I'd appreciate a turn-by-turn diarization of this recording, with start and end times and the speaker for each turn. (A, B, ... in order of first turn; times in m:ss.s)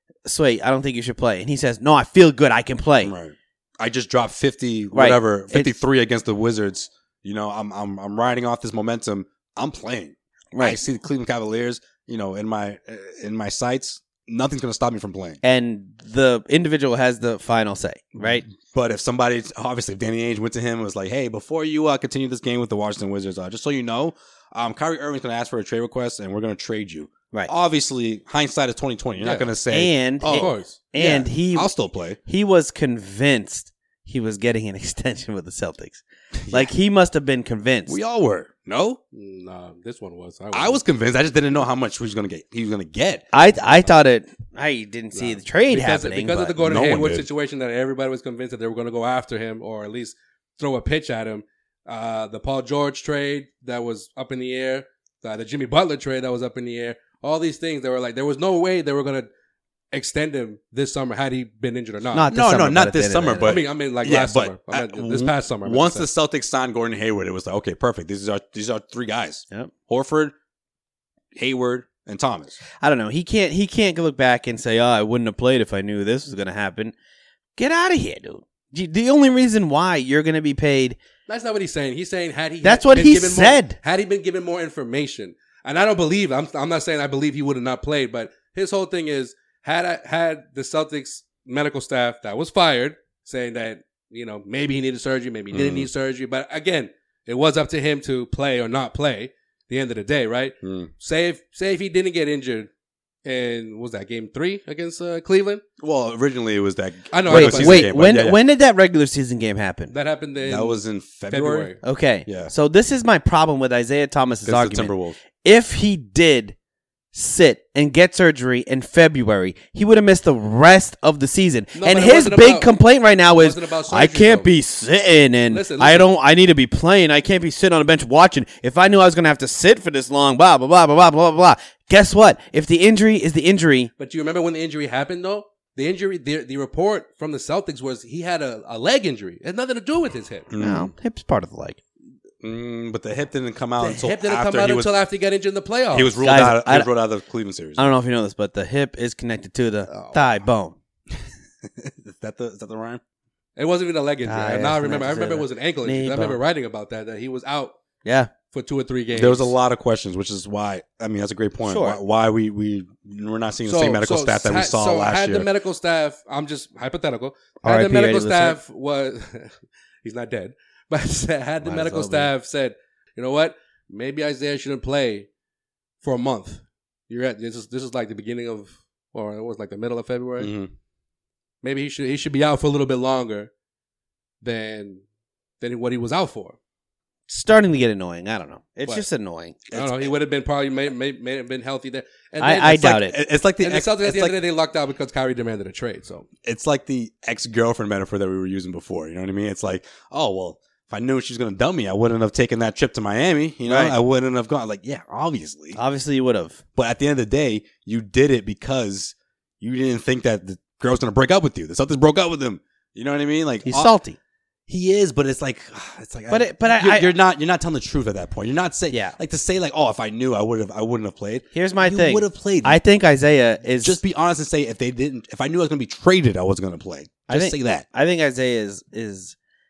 0:00.2-0:03.1 A
0:03.0-0:15.4 B
0:04.9-0:05.7 A
0:10.5-0:10.8 A
0:15.4-0:18.5 A
0:18.2-0:32.2 B
0:29.2-0:29.5 C
0:29.7-0:31.7 A
0:30.2-0:30.9 C
0:32.3-0:38.0 A
0:36.4-0:36.7 B
0:37.9-0:39.0 B
0:39.1-0:40.8 C
0:40.5-0:43.2 B
0:43.3-0:46.6 A
0:45.2-0:59.3 C
0:46.6-0:47.3 B
0:59.9-1:02.3 C
1:02.1-1:03.5 A
1:02.3-1:10.3 B
1:03.4-1:06.1 C
1:11.3-1:12.6 B
1:12.8-1:17.0 A
1:17.6-1:21.0 A
1:21.3-1:42.7 C
1:22.6-1:23.8 A
1:35.5-1:35.9 B
1:40.6-1:40.9 B
1:43.2-1:45.6 C
1:45.8-1:48.4 B
1:47.1-1:47.9 C
1:47.3-1:49.9 A
1:49.9-1:51.8 C
1:50.4-1:51.7 B
1:51.8-1:56.6 A
1:52.3-1:52.5 B
1:54.4-1:55.2 B
1:57.1-2:13.9 A
2:01.8-2:02.8 C
2:03.3-2:04.5 C
2:05.5-2:06.1 C
2:14.0-2:20.5 C
2:20.5-2:20.9 B
2:20.6-2:21.8 A
2:22.4-2:24.9 B
2:23.8-2:26.2 C
2:25.9-2:27.9 B
2:26.2-2:26.9 A
2:27.8-2:30.8 A
2:29.9-2:30.2 C
2:31.1-2:33.0 B
2:33.6-2:37.7 C
2:34.3-2:36.4 A
2:38.0-2:38.3 A
2:38.5-2:39.6 C
2:39.1-2:45.5 B
2:41.6-2:42.0 A
2:43.7-2:55.3 C
2:47.6-2:48.6 A
2:51.6-2:52.3 A
2:56.0-3:00.5 C
3:00.4-3:00.7 B
3:01.6-3:03.5 C
3:04.4-3:05.0 C
3:05.6-3:06.6 C
3:07.3-3:09.6 A
3:09.7-3:10.1 B
3:09.7-3:13.0 C
3:12.4-3:13.2 A
3:12.7-3:14.4 B
3:13.6-3:16.3 C
3:16.4-3:25.8 B
3:23.7-3:24.0 A
3:25.8-3:26.6 A
3:26.8-3:33.9 B
3:33.6-3:34.2 A
3:34.7-3:42.8 B
3:36.3-3:37.1 A
3:38.9-3:39.2 A
3:41.5-3:44.0 A
3:43.8-3:47.9 B
3:47.3-3:49.4 A